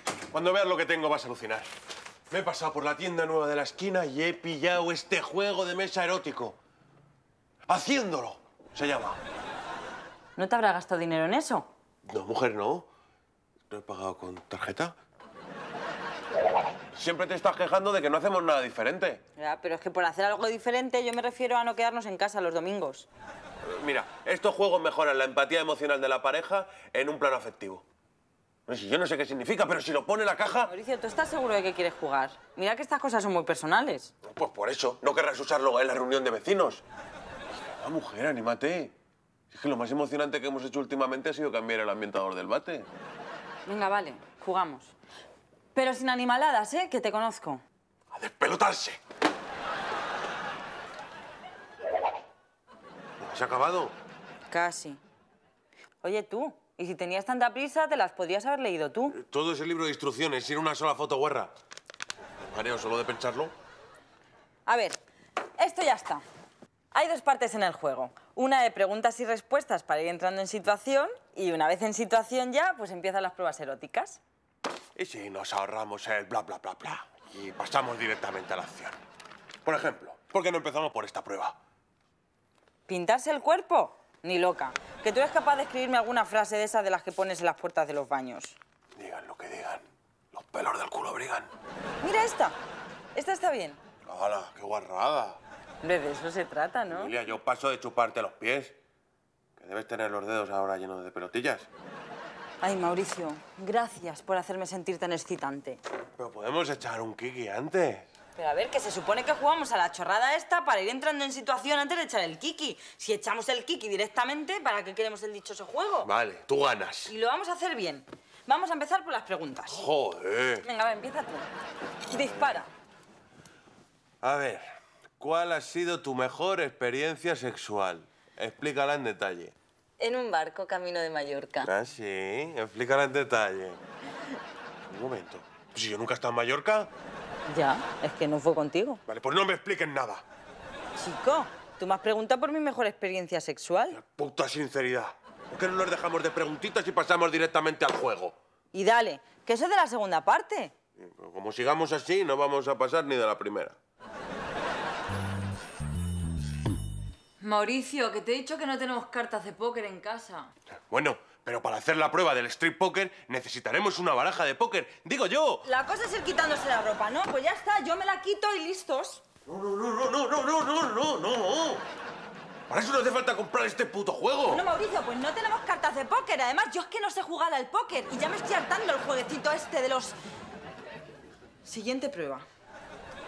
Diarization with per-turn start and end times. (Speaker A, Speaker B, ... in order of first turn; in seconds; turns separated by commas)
Speaker A: 0.3-1.7, Speaker A: 2.3-6.6, Speaker A: 7.7-9.2, Speaker B: 10.4-11.7, Speaker A: 12.1-12.9, Speaker A: 13.7-14.9, Speaker A: 16.9-19.2, Speaker B: 19.4-23.1, Speaker A: 23.6-27.8, Speaker A: 28.7-30.7, Speaker B: 30.6-34.1, Speaker A: 34.2-36.8, Speaker A: 37.5-38.9, Speaker A: 39.5-42.9, Speaker B: 43.7-45.0, Speaker B: 45.7-47.6, Speaker A: 48.1-49.0, Speaker A: 53.2-54.0, Speaker B: 54.5-55.0, Speaker B: 56.0-59.2, Speaker A: 59.1-61.5, Speaker A: 62.4-63.5, Speaker B: 64.7-65.0, Speaker B: 65.6-66.2, Speaker B: 66.9-74.2, Speaker A: 75.0-79.0, Speaker A: 79.7-81.6, Speaker B: 82.9-88.6, Speaker A: 89.0-91.5, Speaker B: 92.0-92.6, Speaker B: 93.1-93.8, Speaker A: 94.1-95.4, Speaker B: 95.8-97.1, Speaker A: 96.9-98.8, Speaker A: 99.6-101.7, Speaker B: 102.6-105.8, Speaker A: 106.2-108.1, Speaker B: 108.4-116.1, Speaker A: 116.0-117.1, Speaker B: 117.1-119.9, Speaker A: 119.7-120.7, Speaker B: 120.6-121.5, Speaker B: 122.1-122.7, Speaker A: 122.1-122.6, Speaker A: 124.2-129.5, Speaker B: 130.0-131.7, Speaker A: 131.6-133.8, Speaker A: 134.9-136.9, Speaker B: 137.5-139.0, Speaker A: 139.1-140.2, Speaker B: 141.0-144.0, Speaker A: 143.9-148.3, Speaker B: 148.7-150.7, Speaker A: 151.0-153.8, Speaker B: 157.4-160.5, Speaker A: 160.9-165.7, Speaker B: 165.7-169.2, Speaker A: 169.5-171.9, Speaker A: 172.7-174.7, Speaker B: 174.5-180.2, Speaker B: 181.6-182.5